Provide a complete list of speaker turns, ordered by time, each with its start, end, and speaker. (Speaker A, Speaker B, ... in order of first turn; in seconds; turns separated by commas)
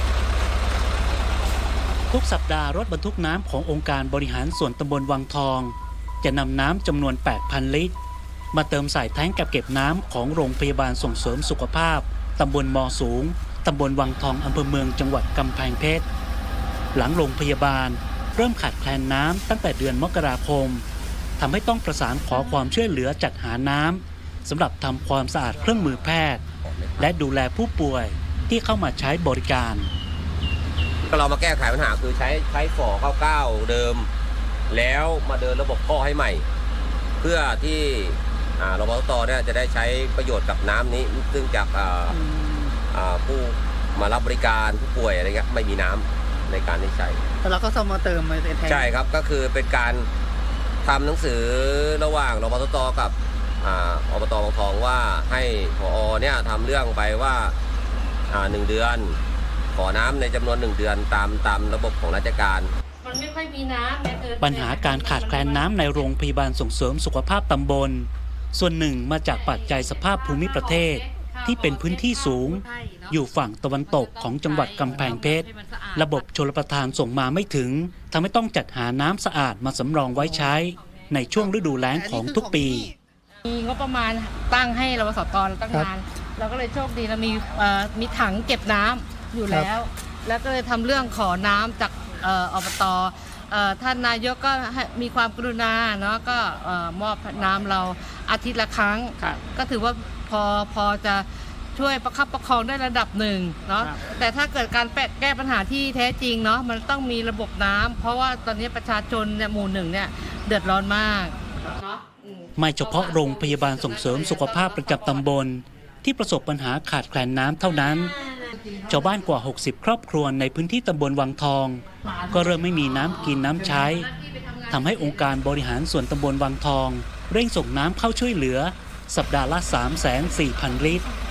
Speaker A: 2.1-7.9, Speaker A: 8.5-16.1, Speaker A: 16.9-20.9, Speaker A: 21.4-26.4, Speaker B: 26.6-27.1, Speaker A: 27.0-29.9, Speaker B: 31.1-34.1, Speaker B: 34.7-36.5, Speaker B: 37.2-42.2, Speaker C: 42.1-42.8, Speaker B: 42.9-47.2, Speaker C: 47.4-48.9, Speaker B: 48.7-50.1, Speaker B: 50.8-57.5, Speaker B: 58.3-59.2, Speaker B: 59.8-62.7, Speaker D: 63.0-66.1, Speaker A: 64.4-82.9, Speaker D: 69.3-73.2, Speaker D: 73.9-76.2, Speaker C: 81.9-83.0, Speaker D: 83.4-115.2, Speaker A: 112.6-118.2, Speaker D: 118.5-118.8, Speaker A: 118.9-124.1, Speaker D: 123.3-125.4, Speaker A: 124.7-131.1